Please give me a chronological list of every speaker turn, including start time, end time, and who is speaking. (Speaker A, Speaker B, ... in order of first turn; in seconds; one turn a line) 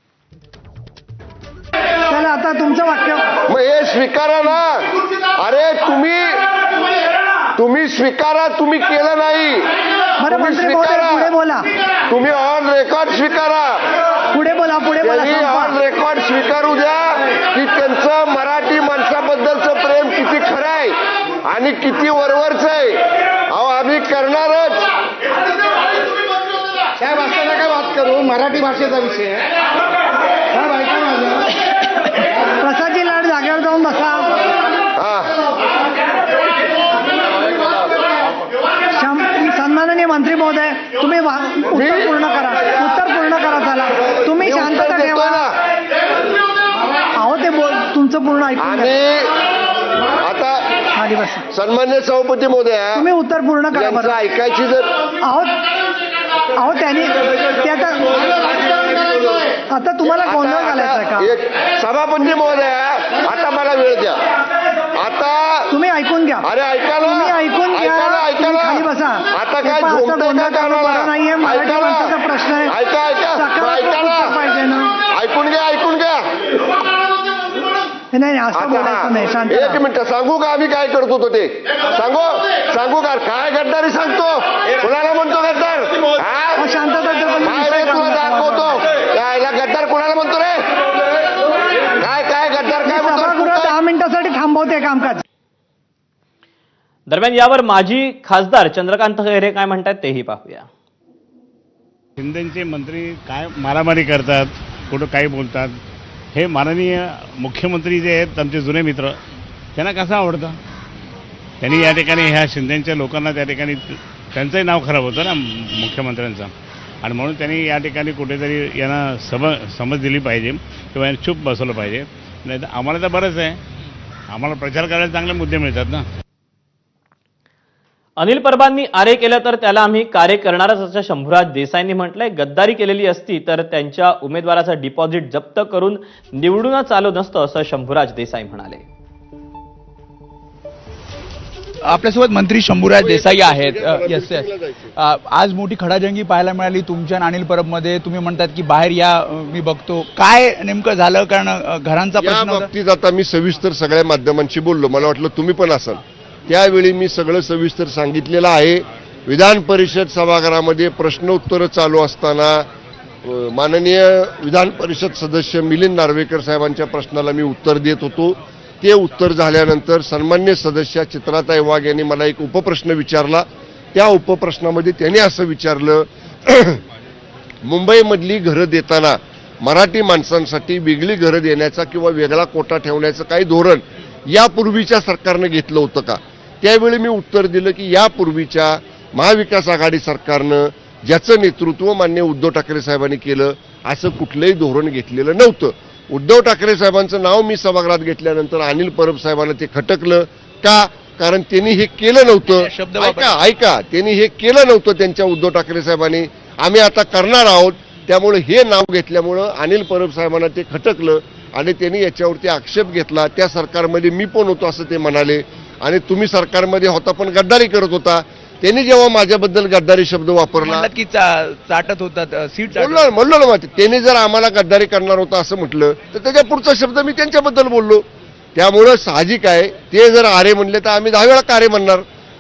Speaker A: 2.1-3.3
Speaker B: 3.5-6.5
Speaker B: 7.5-9.7
Speaker A: 10.2-11.7
Speaker B: 10.3-11.3
Speaker B: 12.1-13.9
Speaker A: 14.3-15.7
Speaker B: 15.0-24.9
Speaker C: 27.0-29.3
Speaker A: 32.6-34.5
Speaker B: 35.0-35.4
Speaker A: 39.0-45.4
Speaker B: 41.8-42.1
Speaker B: 44.4-45.6
Speaker A: 47.2-49.0
Speaker B: 48.6-49.3
Speaker B: 50.2-50.6
Speaker A: 51.0-51.5
Speaker B: 51.5-53.1
Speaker A: 53.0-54.1
Speaker B: 53.7-54.9
Speaker A: 55.2-55.6
Speaker A: 56.6-58.3
Speaker B: 59.0-59.4
Speaker A: 59.7-61.3
Speaker B: 60.0-64.2
Speaker B: 65.0-65.8
Speaker A: 65.7-66.5
Speaker B: 66.4-72.1
Speaker A: 67.0-72.7
Speaker B: 72.7-74.4
Speaker A: 73.3-74.9
Speaker B: 75.1-76.3
Speaker A: 78.1-79.8
Speaker B: 78.5-86.7
Speaker A: 86.6-88.7
Speaker B: 87.4-90.7
Speaker B: 91.8-93.8
Speaker A: 92.9-95.2
Speaker D: 97.1-100.7
Speaker E: 102.2-105.7
Speaker E: 106.3-109.1
Speaker E: 109.8-110.6
Speaker E: 111.6-116.5
Speaker E: 117.0-123.6
Speaker E: 124.3-126.0
Speaker D: 128.2-138.8
Speaker F: 141.8-144.5
Speaker B: 143.0-144.9
Speaker F: 145.0-152.7
Speaker B: 152.2-162.7
Speaker B: 163.2-176.8
Speaker B: 177.7-220.9
Speaker F: 202.5-203.3
Speaker F: 220.6-223.0
Speaker B: 222.8-228.0
Speaker B: 228.6-232.0